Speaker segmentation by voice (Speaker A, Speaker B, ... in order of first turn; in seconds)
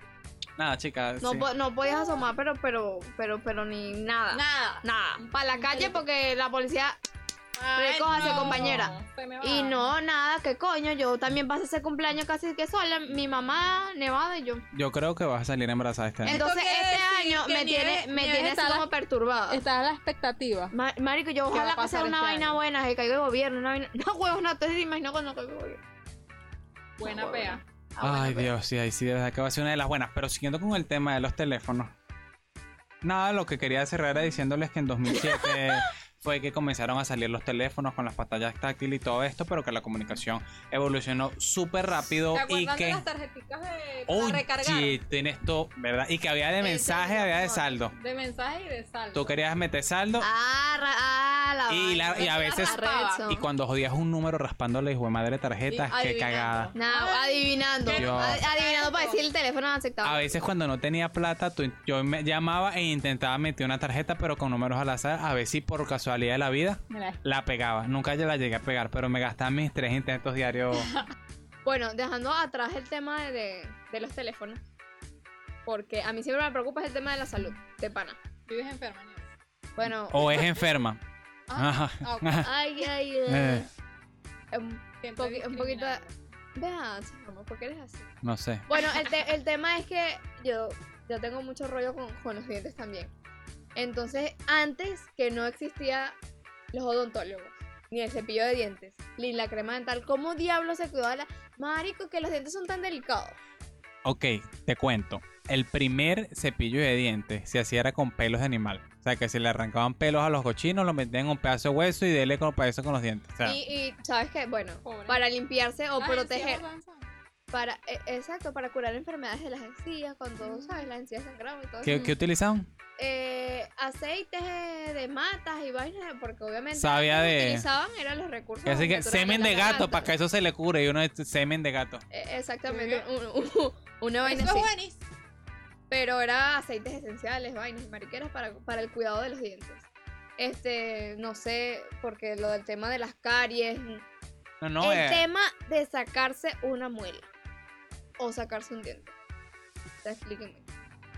Speaker A: 0.6-1.5, 14.7-16.4, 28.0-31.9, 33.0-43.0, 44.1-47.9, 49.1-50.3, 51.7-56.7, 57.9-58.4, 60.0-70.9, 79.8-81.0, 81.5-82.5, 83.3-83.7, 88.2-88.7, 104.0-113.6, 121.8-122.7, 126.7-127.7, 128.7-132.0, 144.6-145.2
Speaker B: 1.2-7.0, 7.8-14.6, 16.2-19.6, 20.7-25.8, 27.0-28.5, 46.6-47.8, 50.2-53.4, 56.7-60.3, 71.6-74.6, 75.7-78.2, 79.8-80.6, 82.4-83.7, 84.5-86.0, 86.5-88.1, 88.7-93.1, 93.8-96.2, 96.7-103.4, 113.4-116.6, 117.5-122.1, 123.0-130.1, 132.1-134.7, 135.9-139.9, 140.4-144.0, 144.8-147.3, 148.2-149.1, 150.0-150.7
Speaker C: 1.9-2.2, 4.3-6.0, 7.5-9.9, 16.2-18.9, 19.5-20.7, 21.5-22.6, 27.0-27.6, 42.3-45.0, 48.0-49.3, 52.1-53.3, 55.7-59.2, 66.9-67.2, 70.7-71.1, 78.5-79.3, 81.5-82.5, 85.0-86.2, 88.7-89.2, 114.8-115.2, 116.0-117.1, 120.4-120.9, 121.9-122.1, 132.7-133.0, 134.2-135.0